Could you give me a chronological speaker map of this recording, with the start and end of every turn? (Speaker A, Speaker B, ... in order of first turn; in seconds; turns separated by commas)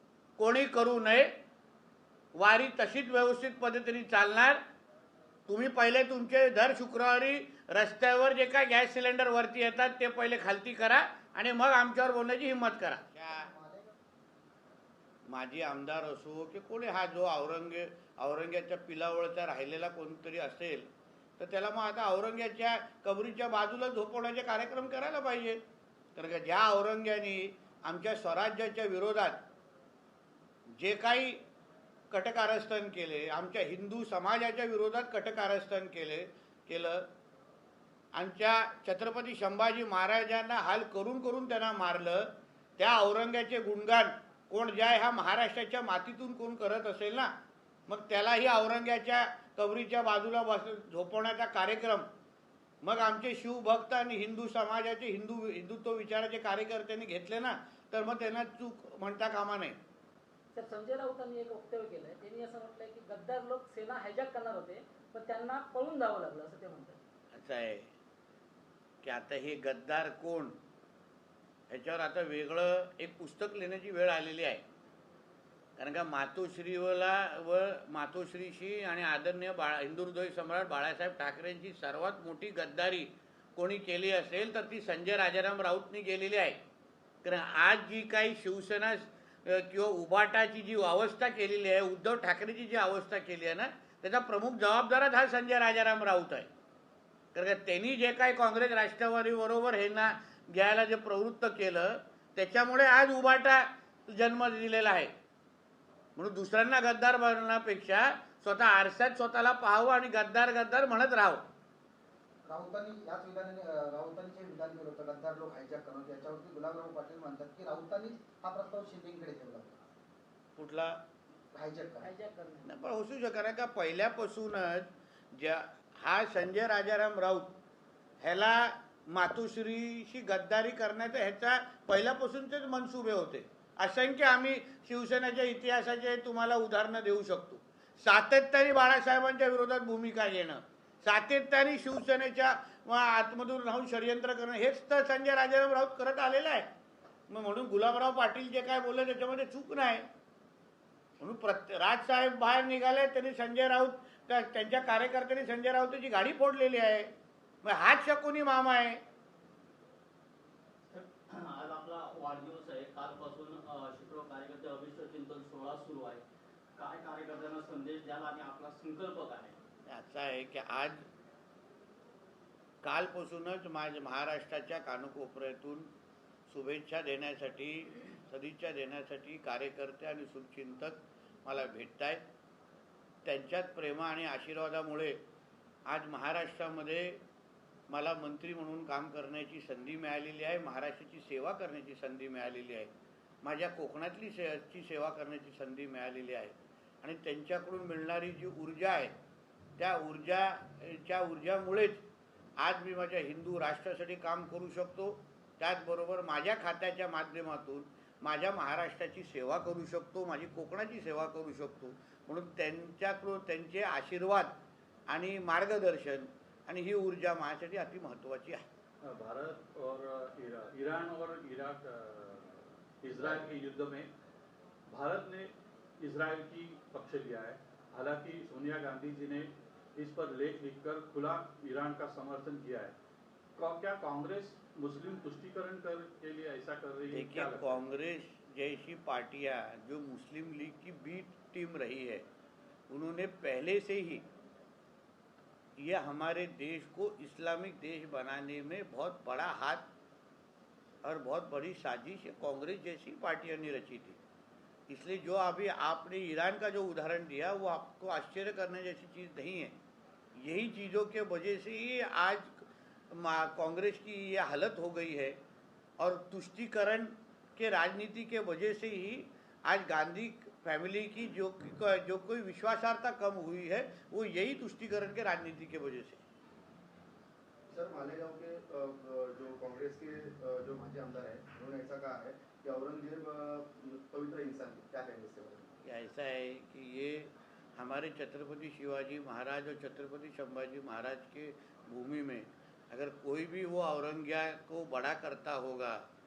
Speaker A: 0.4-1.3, Speaker A: 2.4-4.6, Speaker A: 5.5-13.5, Speaker B: 13.2-13.9, Speaker A: 15.3-20.9, Speaker A: 21.4-25.6, Speaker A: 26.1-29.4, Speaker A: 30.8-31.4, Speaker A: 32.1-37.1, Speaker A: 38.1-47.3, Speaker A: 47.9-52.1, Speaker A: 52.8-59.8, Speaker C: 60.5-67.0, Speaker A: 67.3-67.9, Speaker A: 69.0-70.6, Speaker A: 71.7-74.6, Speaker A: 75.8-86.6, Speaker A: 87.2-96.5, Speaker A: 97.3-105.1, Speaker A: 106.2-111.4, Speaker B: 112.5-119.8, Speaker A: 120.6-121.0, Speaker B: 121.5-122.1, Speaker C: 122.0-122.7, Speaker A: 122.7-127.5, Speaker A: 128.2-146.7, Speaker A: 147.3-150.1, Speaker A: 151.2-157.1, Speaker A: 157.6-159.0, Speaker D: 160.9-166.2, Speaker D: 166.8-169.6, Speaker A: 169.9-171.0, Speaker A: 172.8-175.9, Speaker A: 176.5-182.2, Speaker A: 183.2-185.2, Speaker A: 185.9-187.2, Speaker A: 187.9-192.9, Speaker A: 193.4-199.1, Speaker A: 199.8-202.0, Speaker A: 202.6-214.6, Speaker A: 215.1-218.6, Speaker E: 219.0-224.1, Speaker E: 224.9-232.9, Speaker E: 233.6-237.8, Speaker A: 237.1-242.2, Speaker A: 242.9-244.2, Speaker A: 245.8-249.8, Speaker A: 251.0-254.2, Speaker A: 254.9-259.8, Speaker A: 260.4-265.4, Speaker A: 266.0-276.2, Speaker F: 278.2-279.5, Speaker F: 280.0-281.6, Speaker B: 280.8-281.1, Speaker F: 282.5-283.4, Speaker F: 284.1-285.5, Speaker A: 285.8-296.0